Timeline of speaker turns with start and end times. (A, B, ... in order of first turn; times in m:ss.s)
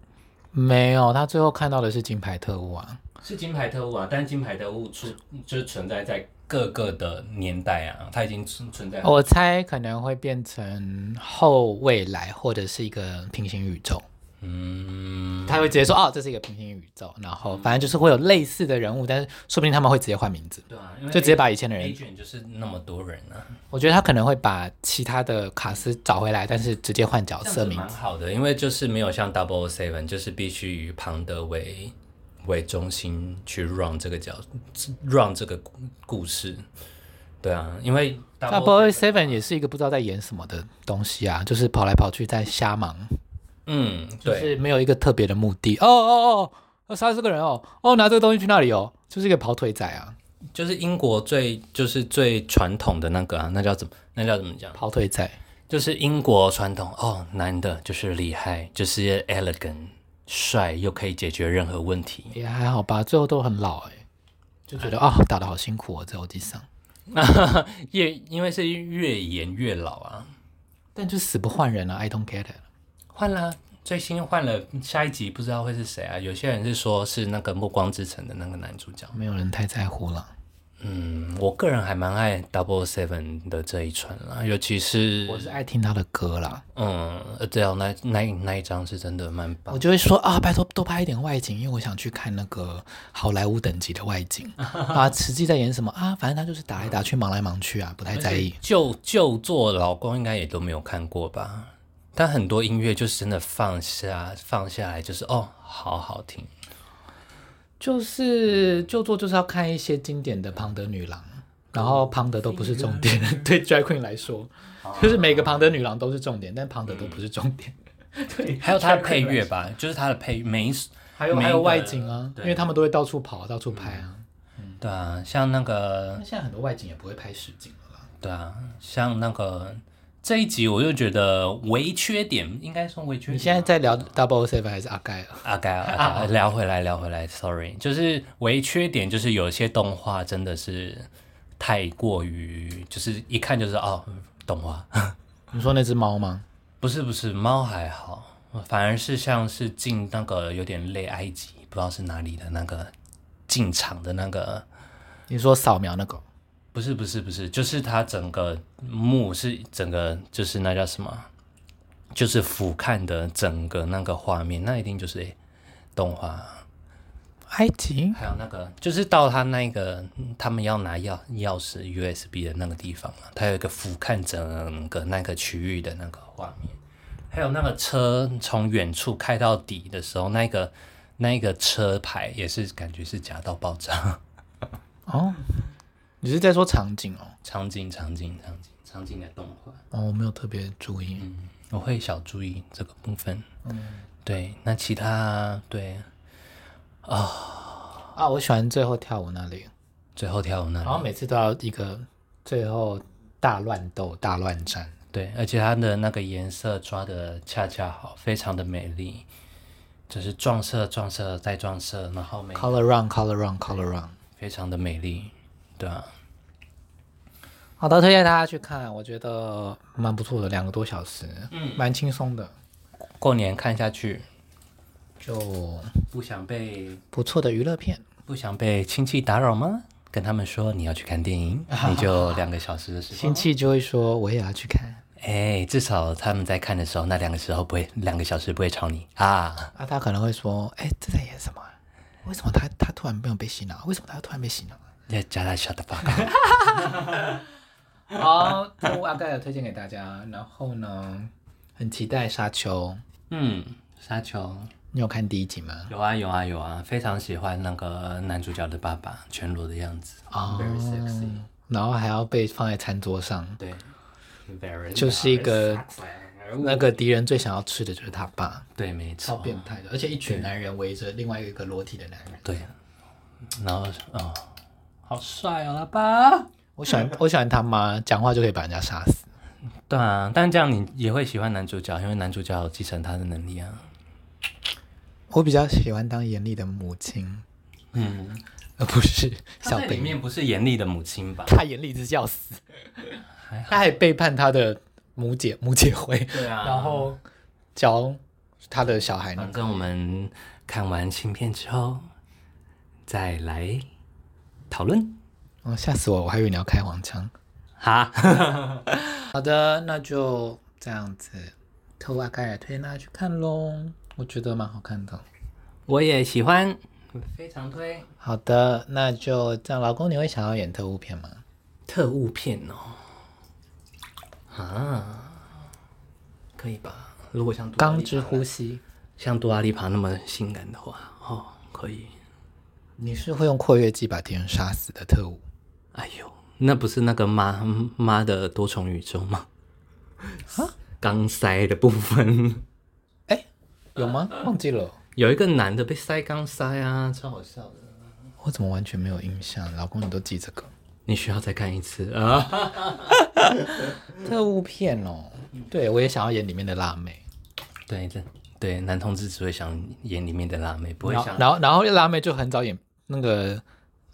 0:00.5-0:03.0 A
0:03.2-0:09.2 B
0:09.0-0:14.0 A
0:14.4-0:15.8 B
0:15.5-0:22.0 A
0:17.4-0:18.0 B
0:20.7-0:23.6 B
0:23.7-0:27.9 A
0:27.4-0:36.7 B
0:37.4-0:39.5 B
0:38.5-0:43.1 A
0:43.7-0:44.6 B
0:44.2-0:50.1 A
0:50.5-0:54.8 B
0:54.8-0:55.4 A
0:55.7-1:02.3 B
1:02.3-1:04.0 A
1:04.7-1:06.7 A
1:07.1-1:10.3 B
1:11.0-1:12.6 A
1:13.1-1:19.2 B
1:19.1-1:20.3 A
1:20.8-1:25.6 B
1:25.3-1:26.6 A
1:26.7-1:29.8 B
1:29.7-1:38.6 A
1:38.1-1:46.5 B
1:47.8-1:59.5 A
1:51.7-1:53.2 B
1:54.8-1:55.7 B
1:56.9-1:57.2 B
1:58.6-2:02.7 B
2:01.1-2:04.8 A
2:03.7-2:04.0 B
2:04.8-2:06.2 B
2:06.2-2:08.1 A
2:08.2-2:14.1 B
2:13.3-2:16.3 A
2:15.4-2:25.2 B
2:25.5-2:26.4 A
2:26.8-2:32.9 B
2:33.5-2:34.6 B
2:35.3-2:36.2 A
2:36.7-2:41.3 B
2:42.1-2:45.4 B
2:46.0-2:46.6 B
2:47.5-2:48.2 A
2:48.1-2:56.8 B
2:57.3-3:04.2 B
3:05.1-3:05.7 A
3:06.2-3:07.4 A
3:07.4-3:09.8 B
3:09.9-3:11.3 A
3:11.2-3:13.4 B
3:13.6-3:14.1 A
3:14.2-3:16.1 B
3:17.0-3:18.1 B
3:18.1-3:19.7 A
3:20.2-3:21.1 B
3:20.8-3:24.9 A
3:25.1-3:29.3 B
3:30.1-3:32.8 B
3:32.6-3:34.1 A
3:34.4-3:36.1 B
3:37.8-3:42.5 A
3:41.5-3:41.8 B
3:43.2-3:44.2 B
3:45.2-3:46.0 A
3:46.1-3:47.0 B
3:47.1-3:48.0 A
3:48.3-3:53.5 B
3:51.7-3:52.4 A
3:53.1-3:55.0 A
3:55.2-3:59.7 B
3:59.8-4:04.8 A
4:05.1-4:07.0 B
4:06.1-4:07.4 A
4:08.1-4:13.0 A
4:13.3-4:14.7 B
4:14.9-4:15.9 A
4:15.9-4:21.4 B
4:20.3-4:23.6 A
4:23.6-4:23.9 B
4:24.5-4:27.0 B
4:25.0-4:25.8 A
4:26.6-4:28.7 A
4:28.8-4:29.7 B
4:29.2-4:32.6 A
4:30.2-4:30.5 B
4:32.4-4:32.7 B
4:33.5-4:34.5 B
4:35.0-4:37.1 B
4:36.8-4:39.2 A
4:39.9-4:43.9 B
4:45.3-4:47.4 A
4:47.9-4:48.4 B
4:48.8-4:50.2 A
4:49.6-4:51.6 B
4:51.4-4:57.2 A
4:53.4-4:53.8 B
4:56.3-4:57.2 B
4:57.8-4:59.6 A
4:59.3-5:02.1 B
5:03.1-5:03.9 B
5:04.7-5:05.2 B
5:05.6-5:07.3 A
5:07.8-5:09.0 B
5:09.1-5:15.2 A
5:15.9-5:18.1 B
5:18.2-5:21.4 A
5:21.9-5:23.0 B
5:24.5-5:25.5 B
5:26.6-5:28.5 B
5:27.8-5:28.8 A
5:29.2-5:32.1 B
5:33.0-5:35.4 A
5:35.9-5:39.5 B
5:40.8-5:42.6 B
5:43.3-5:45.0 A
5:45.2-5:48.0 B
5:48.4-5:50.7 A
5:51.1-5:53.3 B
5:54.1-5:57.2 A
5:57.9-6:01.5 B
6:01.0-6:03.6 A